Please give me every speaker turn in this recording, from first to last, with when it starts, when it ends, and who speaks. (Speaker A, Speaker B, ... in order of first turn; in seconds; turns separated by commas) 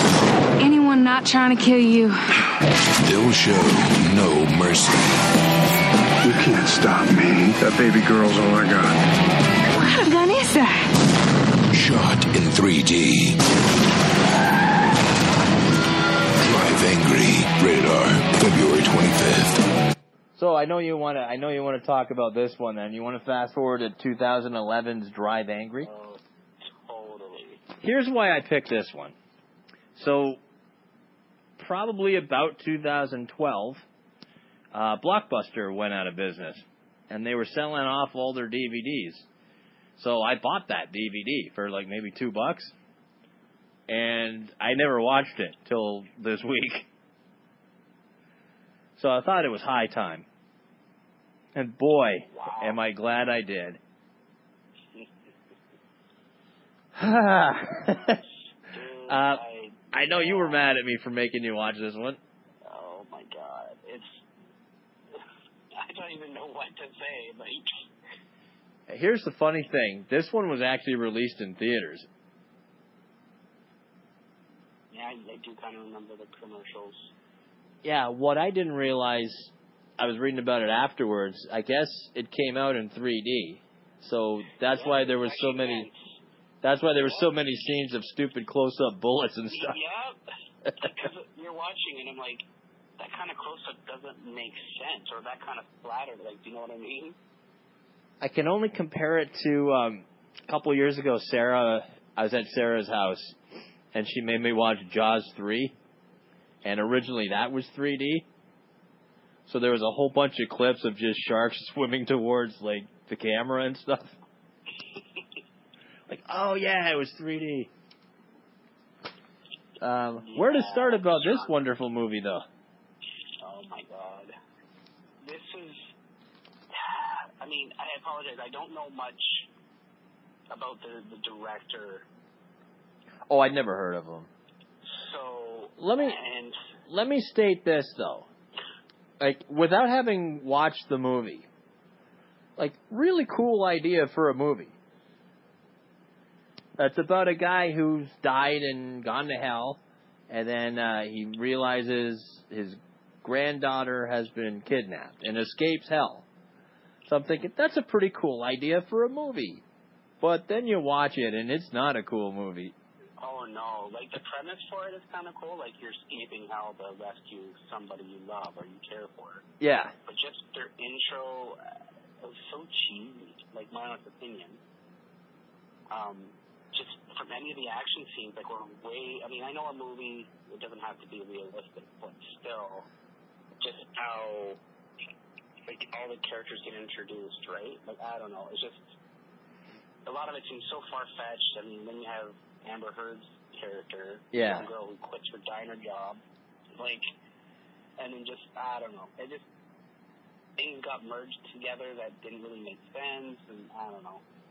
Speaker A: 0.6-2.2, Speaker B: 3.0-5.0, Speaker C: 6.2-9.0, Speaker A: 9.8-10.9, Speaker B: 11.7-13.4, Speaker B: 16.4-19.6, Speaker D: 20.4-25.9, Speaker E: 25.8-27.6, Speaker D: 27.8-29.1, Speaker D: 29.9-30.4, Speaker D: 31.6-33.8, Speaker D: 34.7-39.3, Speaker D: 40.0-42.7, Speaker D: 43.9-46.9, Speaker D: 49.0-50.2, Speaker D: 51.5-53.8, Speaker E: 52.3-52.8, Speaker D: 57.0-58.2, Speaker E: 58.7-60.6, Speaker D: 59.1-59.4, Speaker D: 59.9-62.2, Speaker E: 62.6-64.2, Speaker E: 65.7-67.8, Speaker D: 68.9-72.1, Speaker E: 74.9-77.0, Speaker D: 77.8-85.9, Speaker E: 84.7-86.1, Speaker D: 86.6-89.8, Speaker E: 87.0-87.3, Speaker E: 89.5-90.2, Speaker E: 90.7-92.5, Speaker E: 93.0-97.2, Speaker D: 98.2-103.4, Speaker D: 103.9-105.8, Speaker D: 106.6-108.3, Speaker D: 109.5-114.2, Speaker D: 116.1-117.7, Speaker D: 119.8-122.5, Speaker E: 120.2-121.5, Speaker E: 123.4-124.3, Speaker E: 125.2-125.9, Speaker E: 126.7-129.5, Speaker E: 130.5-132.1, Speaker D: 133.3-134.3, Speaker E: 134.9-136.6, Speaker D: 135.8-136.2, Speaker D: 136.9-138.3, Speaker D: 139.2-141.5, Speaker D: 142.6-144.7, Speaker D: 146.8-149.8, Speaker D: 150.3-156.2, Speaker D: 157.1-159.6, Speaker D: 160.2-162.7, Speaker E: 163.2-169.4, Speaker D: 169.6-169.9, Speaker E: 170.1-171.6, Speaker E: 172.2-174.6, Speaker E: 175.9-182.9, Speaker E: 183.6-184.6, Speaker E: 185.7-188.9, Speaker E: 190.1-196.2, Speaker D: 194.3-194.7, Speaker E: 196.8-197.1, Speaker E: 198.0-199.5, Speaker E: 200.6-204.2